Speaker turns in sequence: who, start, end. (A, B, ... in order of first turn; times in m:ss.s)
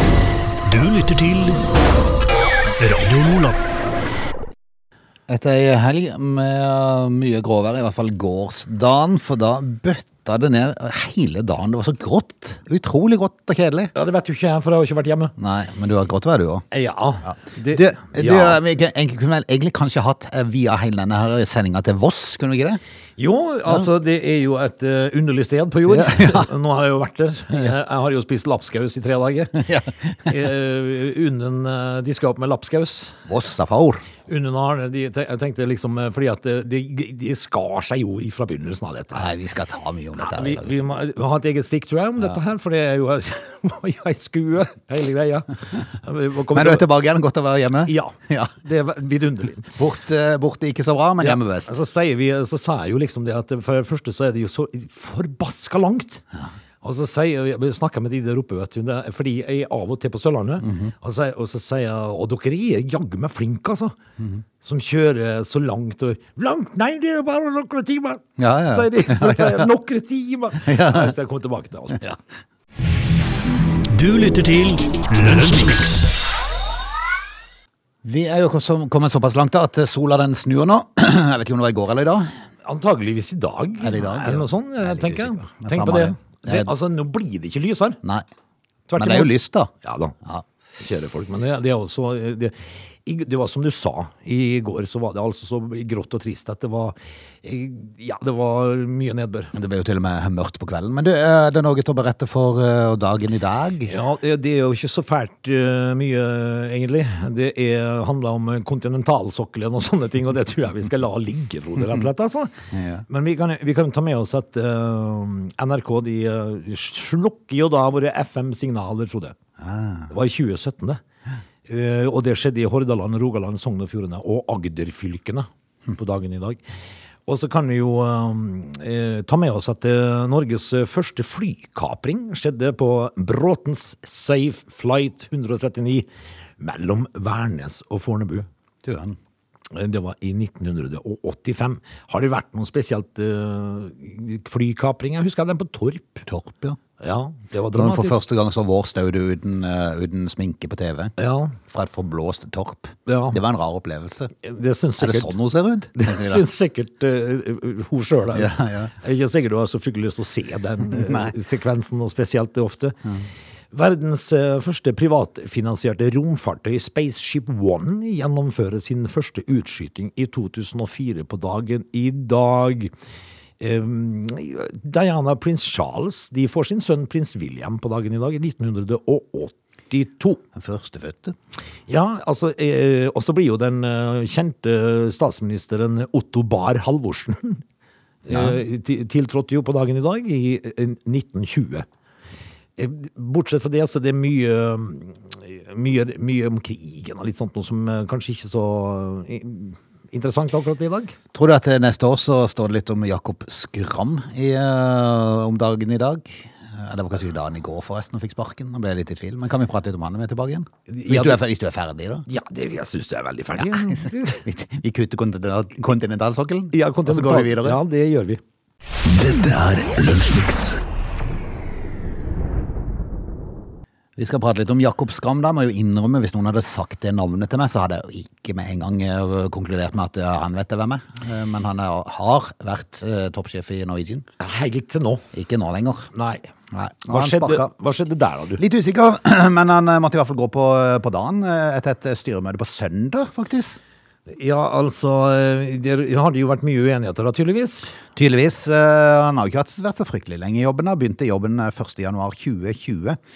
0:00.6-0:01.6 A
0:02.8-0:03.6 A
0:05.3-0:13.9 B
0:13.9-0:15.3 C
0:15.4-0:16.7 B
0:16.7-0:18.6 C
0:17.2-0:22.8 B
0:23.2-0:29.7 C
0:25.9-0:26.5 B
0:29.6-0:30.4 B
0:30.2-0:33.2 C
0:33.3-0:34.0 B
0:34.3-0:39.3 C
0:39.1-0:40.8 B
0:40.2-0:46.9 C
0:46.5-0:48.6 B
0:47.8-0:49.7 C
0:49.7-0:51.7 B
0:51.2-0:56.2 C
0:56.8-1:04.0 C
1:00.6-1:00.9 B
1:04.6-1:12.2 C
1:08.4-1:09.7 B
1:10.6-1:11.2 B
1:13.9-1:16.1 A
1:18.0-1:22.3 B
1:22.6-1:28.0 C
1:23.8-1:26.7 B
1:28.9-1:30.2 C
1:29.0-1:29.7 B
1:30.8-1:39.5 C
1:39.5-1:43.9 B
1:43.9-1:59.4 C
1:52.7-1:53.0 B
1:59.6-2:00.1 B
2:00.1-2:01.0 C
2:01.7-2:06.6 C
2:07.3-2:16.1 C
2:16.6-2:18.5 C
2:18.8-2:19.2 B
2:19.7-2:26.2 C
2:26.2-2:26.8 B
2:27.0-2:28.2 C
2:27.8-2:34.3 B
2:31.2-2:31.6 C
2:33.0-2:33.4 C
2:34.4-2:35.4 C
2:35.0-2:36.4 B
2:35.9-2:43.0 C
2:38.3-2:38.9 B
2:40.9-2:41.3 B
2:43.7-2:52.9 C
2:53.6-3:00.4 C
3:00.5-3:01.4 B
3:01.9-3:07.6 C
3:08.2-3:11.8 C
3:08.3-3:08.6 B
3:12.8-3:21.2 C
3:21.3-3:32.2 B
3:30.9-3:31.4 C
3:32.3-3:34.4 C
3:33.6-3:37.8 B
3:36.7-3:38.4 C
3:39.0-3:40.8 A
3:44.2-3:54.2 B
3:54.4-3:55.2 C
3:55.3-3:56.1 B
3:56.1-3:56.5 C
3:56.7-3:57.7 B
3:57.1-3:58.6 C
3:58.6-4:03.8 B
4:04.3-4:08.0 C
4:08.1-4:13.2 B